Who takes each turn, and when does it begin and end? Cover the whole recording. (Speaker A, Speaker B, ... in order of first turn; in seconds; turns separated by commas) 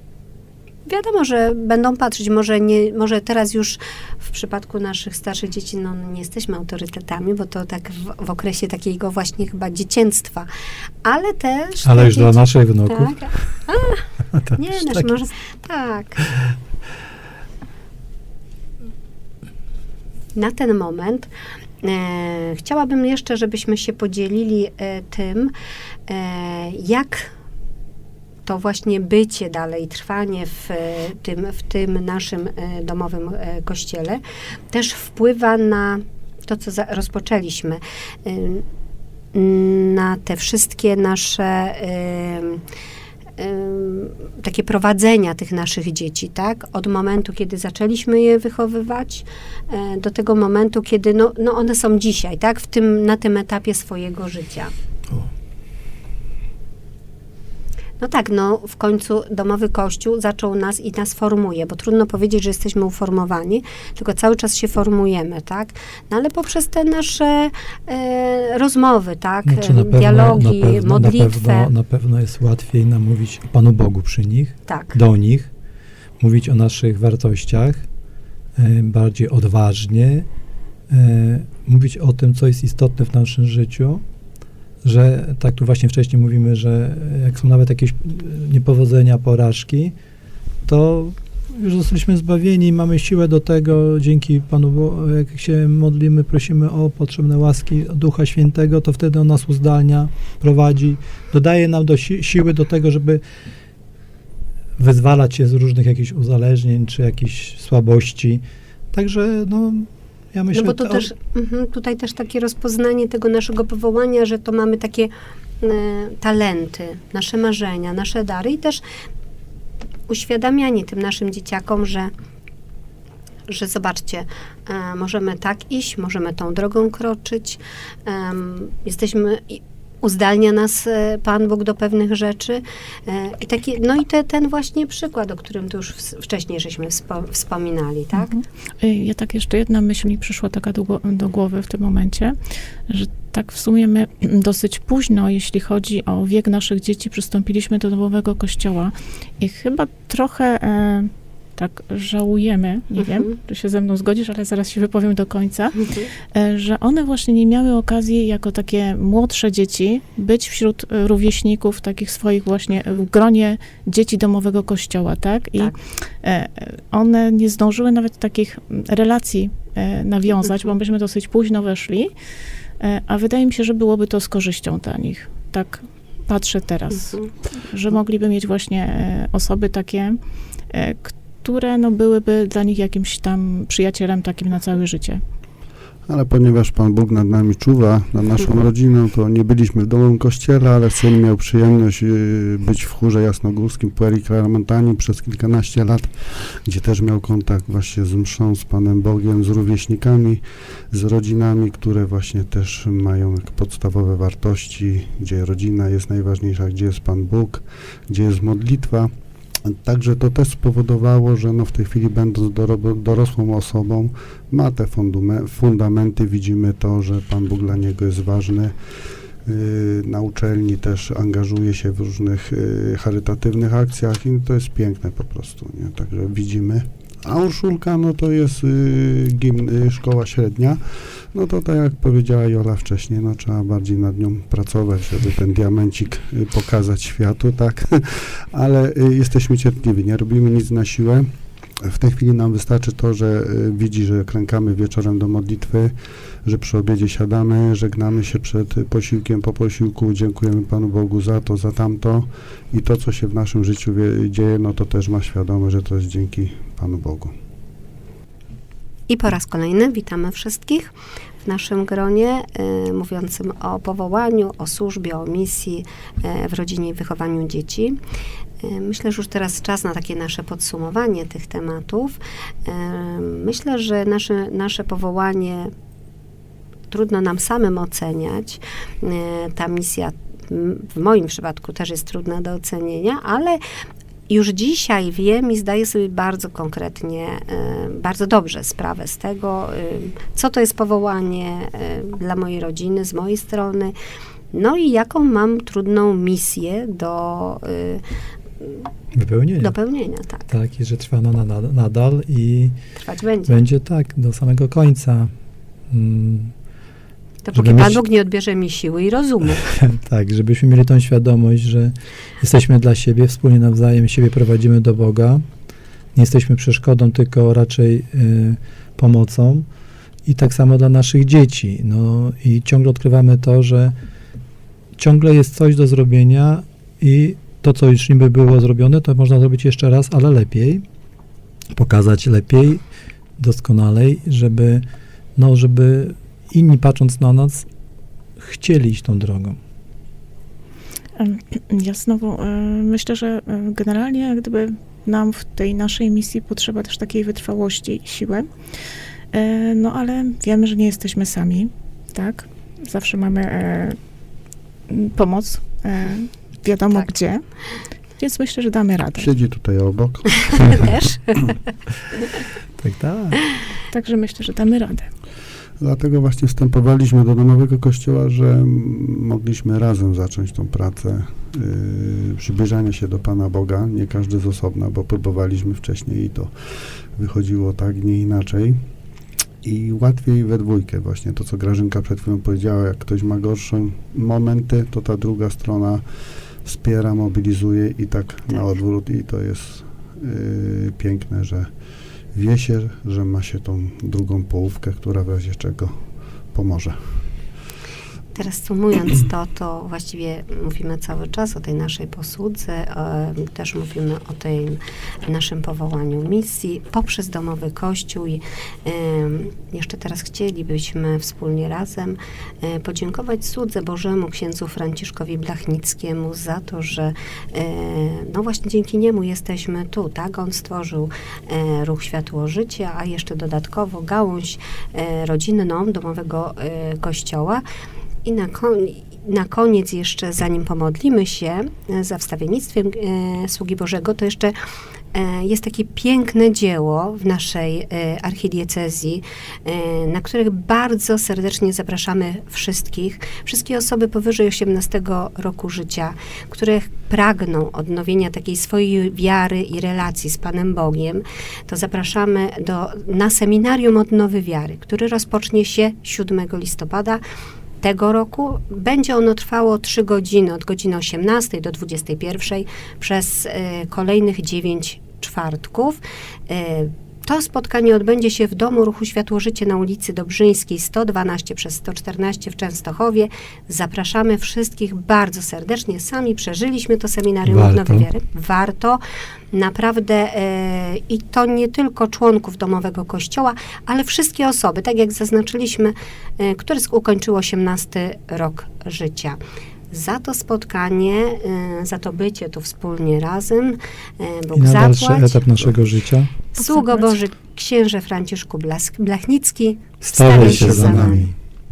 Speaker A: 0.8-10.5, Speaker A: 11.0-16.2, Speaker B: 11.8-13.4, Speaker B: 14.3-15.1, Speaker B: 16.2-16.5, Speaker A: 20.3-21.3, Speaker A: 21.8-25.5, Speaker A: 26.1-27.3, Speaker A: 28.4-38.6, Speaker A: 39.3-42.6, Speaker A: 43.4-54.7, Speaker A: 58.0-71.7, Speaker B: 69.5-75.5, Speaker A: 74.7-75.0, Speaker B: 76.2-77.8, Speaker B: 78.5-80.3, Speaker B: 80.9-84.0, Speaker B: 84.8-89.9, Speaker B: 90.6-103.2, Speaker B: 104.8-111.1, Speaker A: 110.5-118.8, Speaker A: 120.1-122.1, Speaker A: 123.5-138.3, Speaker C: 138.2-172.1, Speaker A: 153.0-153.3, Speaker A: 155.8-156.1, Speaker C: 172.8-185.2, Speaker D: 186.1-209.1, Speaker D: 209.6-218.8, Speaker D: 219.4-257.3, Speaker A: 259.1-268.0, Speaker A: 268.6-275.7, Speaker A: 276.9-283.6, Speaker A: 284.3-293.9, Speaker A: 294.5-298.0, Speaker A: 298.6-298.9, Speaker B: 299.1-299.7, Speaker A: 299.6-300.5, Speaker B: 300.5-302.8, Speaker A: 303.0-303.5, Speaker B: 303.5-305.3, Speaker B: 305.9-306.5, Speaker A: 307.4-309.6, Speaker B: 307.5-308.0, Speaker B: 309.6-315.4, Speaker B: 316.1-319.7, Speaker B: 320.2-323.9, Speaker B: 325.0-330.8, Speaker B: 331.7-332.8, Speaker B: 333.4-334.8, Speaker B: 335.4-337.6, Speaker B: 338.4-339.6, Speaker C: 341.1-348.5, Speaker C: 349.3-354.0, Speaker C: 354.9-357.4, Speaker C: 358.2-359.3, Speaker D: 359.1-361.0, Speaker A: 360.6-361.5, Speaker B: 362.8-363.4, Speaker C: 363.9-365.1, Speaker D: 365.8-376.5, Speaker D: 377.1-378.8, Speaker D: 379.6-386.0, Speaker D: 386.6-391.7, Speaker D: 392.3-395.9, Speaker D: 396.5-397.0, Speaker A: 398.3-427.6, Speaker A: 428.2-434.5, Speaker A: 435.1-457.2, Speaker A: 457.8-479.0, Speaker B: 477.4-478.1, Speaker A: 479.5-489.4, Speaker A: 489.9-495.5, Speaker B: 494.5-496.3, Speaker A: 496.5-501.2, Speaker B: 500.0-501.3, Speaker D: 500.3-501.2